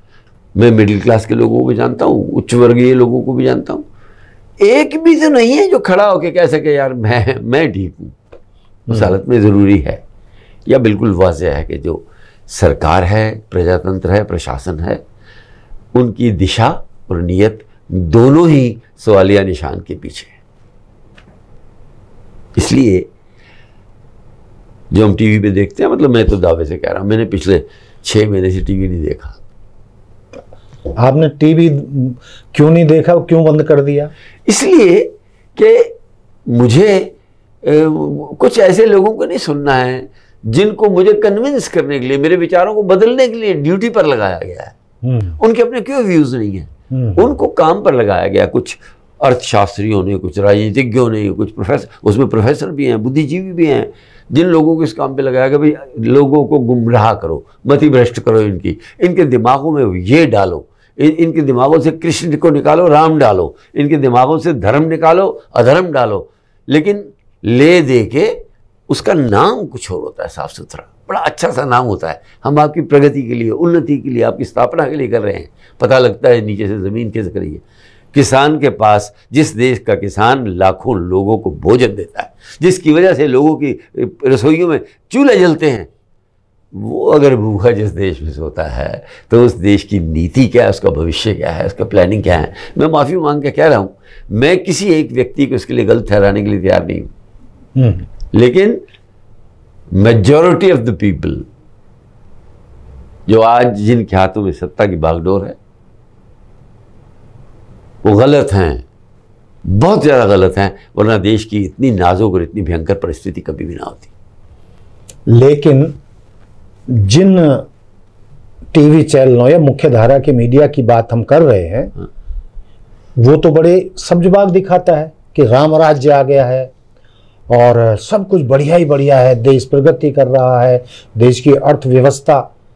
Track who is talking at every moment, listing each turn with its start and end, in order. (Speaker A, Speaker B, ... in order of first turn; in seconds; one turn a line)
Speaker A: 0.6-3.8
Speaker A: 4.6-8.2
Speaker A: 8.9-10.0
Speaker B: 8.9-9.1
Speaker A: 10.7-15.0
Speaker A: 15.9-20.3
Speaker A: 22.5-23.1
Speaker A: 24.9-29.4
Speaker B: 30.9-34.1
Speaker A: 34.5-35.9
Speaker A: 36.5-37.1
Speaker A: 37.6-44.7
Speaker B: 45.0-45.4
Speaker A: 45.4-77.6
Speaker B: 46.9-47.3
Speaker A: 78.1-85.9
Speaker A: 86.7-97.1
Speaker B: 97.8-98.0
Speaker A: 98.3-98.8
Speaker A: 99.9-101.5
Speaker A: 103.3-105.6
Speaker A: 108.0-108.8
Speaker A: 109.7-114.1
Speaker B: 115.3-116.0
Speaker B: 116.9-117.7
Speaker B: 118.7-121.9
Speaker B: 123.2-126.7
Speaker B: 127.5-132.5